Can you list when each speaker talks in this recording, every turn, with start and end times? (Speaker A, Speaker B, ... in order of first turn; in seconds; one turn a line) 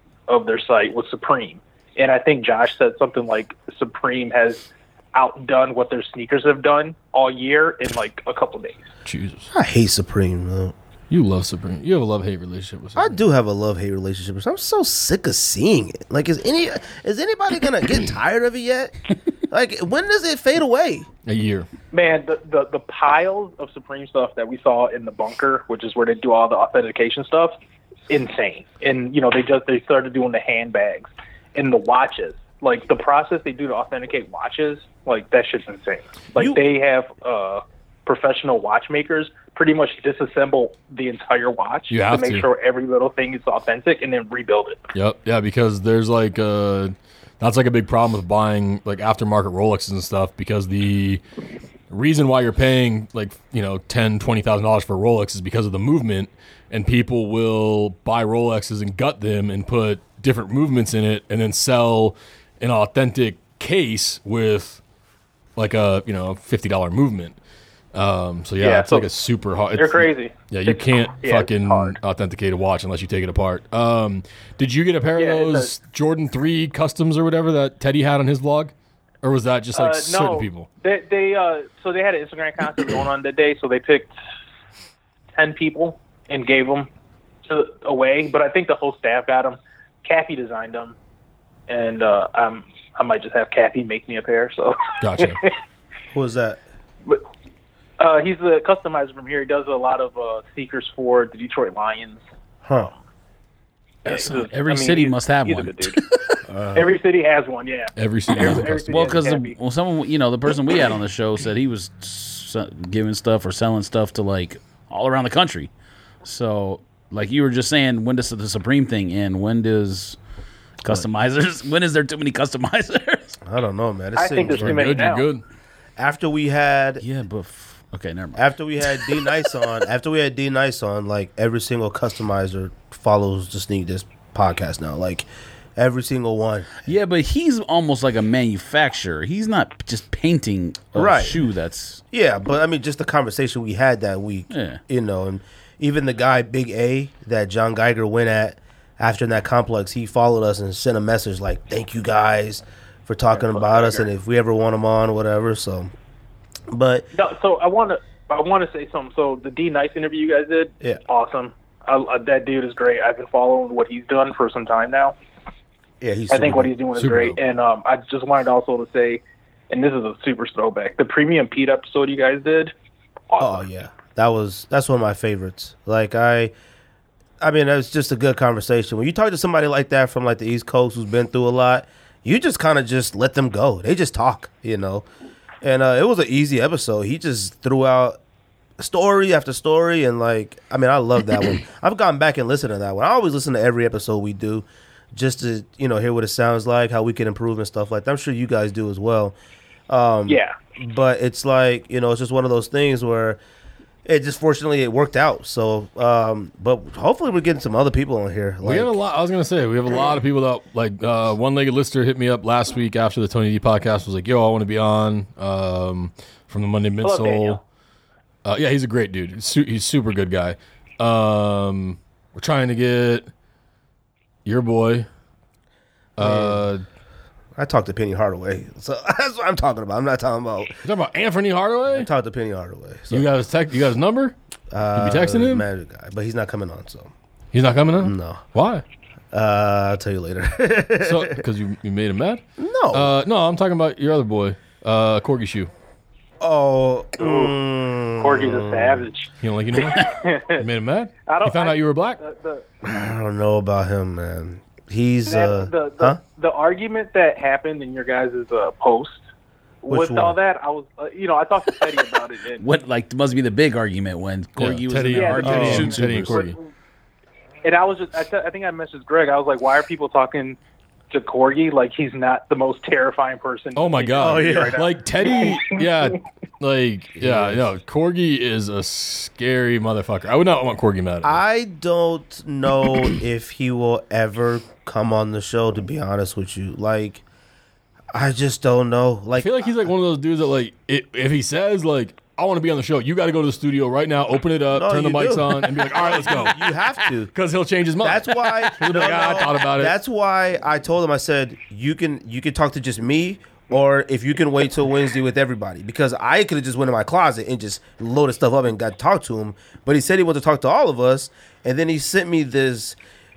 Speaker A: 0.3-8.9
Speaker B: 9.1-9.5
Speaker C: 9.5-10.7
Speaker B: 11.1-13.2
Speaker C: 13.0-18.9
Speaker C: 19.5-21.1
Speaker B: 21.3-21.7
Speaker A: 21.9-27.6
Speaker A: 28.1-44.8
Speaker C: 36.4-36.6
Speaker B: 41.9-42.5
Speaker B: 44.9-51.2
Speaker B: 51.9-64.8
Speaker B: 65.6-67.4
Speaker B: 67.9-80.7
Speaker A: 68.6-69.1
Speaker A: 69.8-72.0
Speaker A: 75.2-75.7
Speaker A: 79.7-84.1
Speaker A: 85.3-86.9
Speaker A: 87.4-91.0
Speaker A: 91.7-95.5
Speaker B: 95.0-95.4
Speaker C: 96.1-96.6
Speaker A: 98.0-102.2
Speaker C: 102.7-102.9
Speaker D: 104.0-106.9
Speaker A: 104.1-109.5
Speaker B: 108.0-109.2
Speaker D: 108.4-115.7
Speaker D: 116.2-120.2
Speaker D: 120.8-123.4
Speaker C: 123.5-124.9
Speaker A: 124.2-125.3
Speaker B: 124.5-125.4
Speaker C: 126.0-127.0
Speaker D: 127.0-129.3
Speaker C: 128.4-136.8
Speaker D: 136.8-142.0
Speaker C: 140.9-141.4
Speaker C: 142.1-155.9
Speaker D: 144.5-144.8
Speaker A: 153.3-154.1
Speaker C: 156.7-157.1
Speaker A: 157.1-165.2
Speaker C: 166.0-166.7
Speaker A: 166.3-172.7
Speaker B: 166.9-167.4
Speaker A: 173.3-173.6
Speaker C: 173.4-176.5
Speaker C: 177.4-185.1
Speaker C: 185.6-188.2
Speaker C: 188.8-199.4
Speaker C: 199.9-203.4
Speaker A: 200.3-200.6
Speaker C: 204.1-209.0
Speaker B: 208.6-217.6
Speaker A: 217.0-217.6
Speaker B: 218.4-223.3
Speaker B: 224.4-225.1
Speaker B: 226.2-226.8
Speaker C: 226.2-226.7
Speaker C: 227.6-230.8
Speaker B: 230.8-232.1
Speaker C: 231.9-233.3
Speaker B: 233.1-234.3
Speaker C: 234.7-237.1
Speaker B: 235.0-235.6
Speaker B: 237.5-238.8
Speaker C: 238.0-238.4
Speaker C: 239.3-241.4
Speaker B: 241.0-245.7
Speaker C: 242.6-243.1
Speaker C: 246.4-249.1
Speaker A: 247.2-247.6
Speaker A: 248.2-250.6
Speaker B: 249.4-252.2
Speaker A: 251.3-252.7
Speaker C: 252.8-256.2
Speaker A: 255.3-259.2
Speaker A: 259.8-262.6
Speaker C: 259.9-260.4
Speaker D: 262.6-266.5
Speaker B: 264.6-266.6
Speaker A: 265.1-266.6
Speaker C: 265.4-265.9
Speaker A: 267.6-270.6
Speaker A: 271.1-275.9
Speaker B: 273.8-281.4
Speaker C: 274.2-274.8
Speaker C: 277.2-277.6
Speaker C: 281.2-287.2
Speaker C: 288.1-289.9
Speaker B: 289.4-296.8
Speaker C: 294.8-297.3
Speaker B: 297.3-299.9
Speaker C: 298.0-313.0